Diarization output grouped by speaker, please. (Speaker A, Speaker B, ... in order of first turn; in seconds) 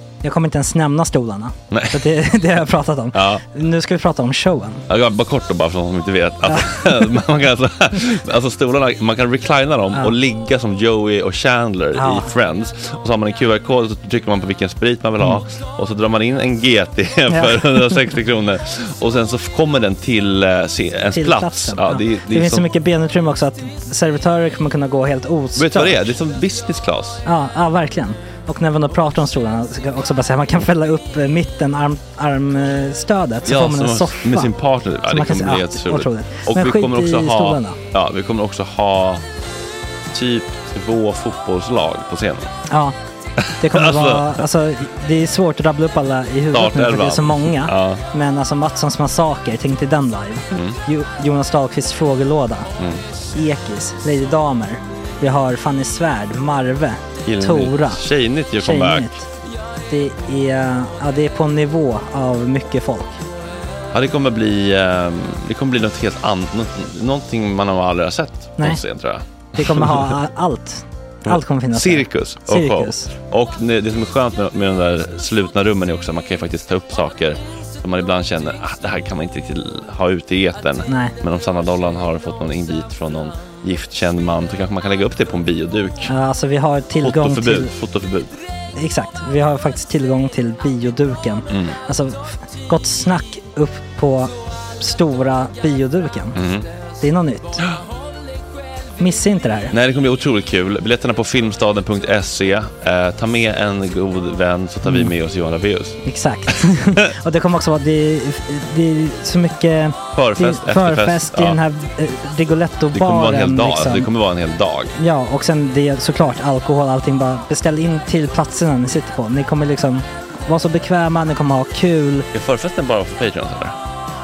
Speaker A: 0.2-4.8, 6.5-7.1, 11.9-12.3, 17.3-18.0, 21.1-26.1, 27.2-34.5, 35.0-37.8, 42.7-43.0, 43.6-52.7, 53.3-59.3, 59.9-63.2, 68.6-68.8, 69.5-73.1, 80.9-81.1, 86.0-87.7, 88.8-96.4, 97.0-97.6, 99.0-99.7, 106.0-114.1, 115.0-122.3
Speaker B: 1.7-2.0, 3.1-3.4, 4.9-22.7, 25.6-27.2, 33.5-39.2, 40.1-42.5, 43.4-44.4, 46.5-48.0, 50.5-50.8, 52.8-53.0, 57.2-59.1, 63.9-70.2, 71.2-86.1, 87.0-88.3, 91.5-91.8, 96.3-96.7, 99.7-106.0, 110.1-111.6, 112.9-114.9, 122.3-123.8